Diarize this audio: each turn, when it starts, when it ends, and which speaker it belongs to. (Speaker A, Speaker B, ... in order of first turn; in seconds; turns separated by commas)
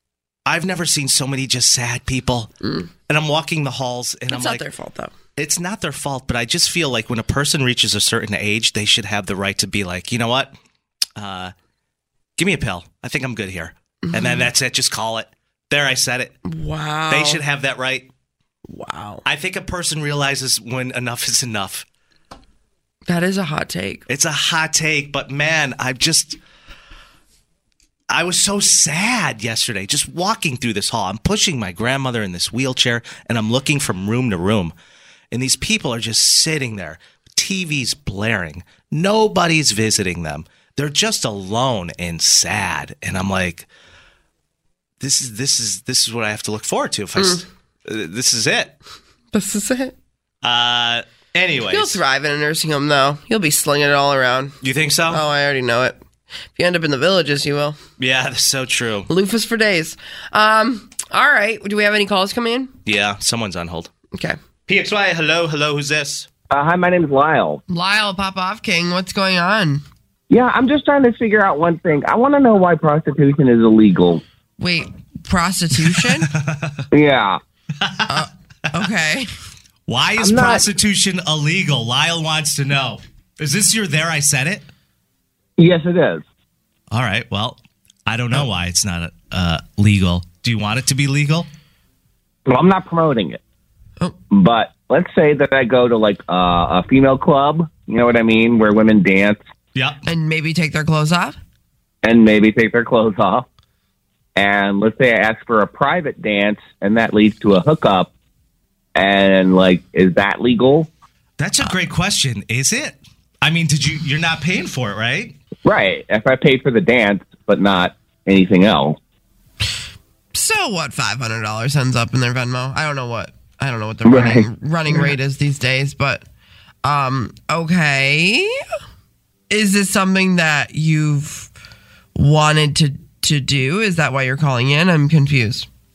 Speaker A: 0.5-2.5, Speaker B: 2.6-2.9, Speaker A: 3.1-4.7, Speaker B: 4.3-5.1, Speaker A: 5.4-10.6, Speaker A: 11.2-11.5, Speaker A: 12.4-16.4, Speaker B: 14.1-14.5, Speaker B: 16.4-17.4, Speaker A: 17.1-18.1, Speaker B: 18.7-19.2, Speaker A: 19.2-21.9, Speaker B: 23.1-24.1, Speaker A: 24.1-26.4, Speaker A: 28.1-34.7, Speaker A: 35.3-43.7, Speaker A: 45.0-48.8, Speaker B: 47.2-47.4, Speaker B: 49.3-50.0, Speaker A: 50.4-52.0, Speaker B: 51.7-54.5, Speaker A: 54.6-55.2, Speaker B: 55.1-56.0, Speaker B: 56.5-57.8, Speaker A: 58.0-59.1, Speaker B: 59.1-62.7, Speaker A: 62.9-63.9, Speaker B: 64.1-64.4, Speaker A: 64.7-66.3, Speaker C: 66.5-67.6, Speaker B: 67.7-69.8, Speaker C: 70.3-74.2, Speaker B: 74.6-76.3, Speaker A: 75.9-76.9, Speaker C: 76.9-77.4, Speaker A: 77.8-78.3, Speaker B: 78.1-79.3, Speaker A: 79.9-84.7, Speaker C: 80.2-80.6, Speaker C: 85.6-86.2, Speaker A: 86.9-91.5, Speaker C: 92.5-93.4, Speaker C: 94.3-99.4, Speaker A: 99.8-100.0, Speaker B: 100.1-101.4, Speaker C: 102.0-103.5, Speaker C: 104.4-108.1, Speaker C: 109.0-110.9, Speaker A: 111.4-115.4, Speaker C: 115.6-119.0, Speaker B: 120.3-126.2, Speaker C: 124.1-124.5, Speaker B: 126.8-128.6, Speaker B: 129.5-131.5, Speaker B: 132.2-135.7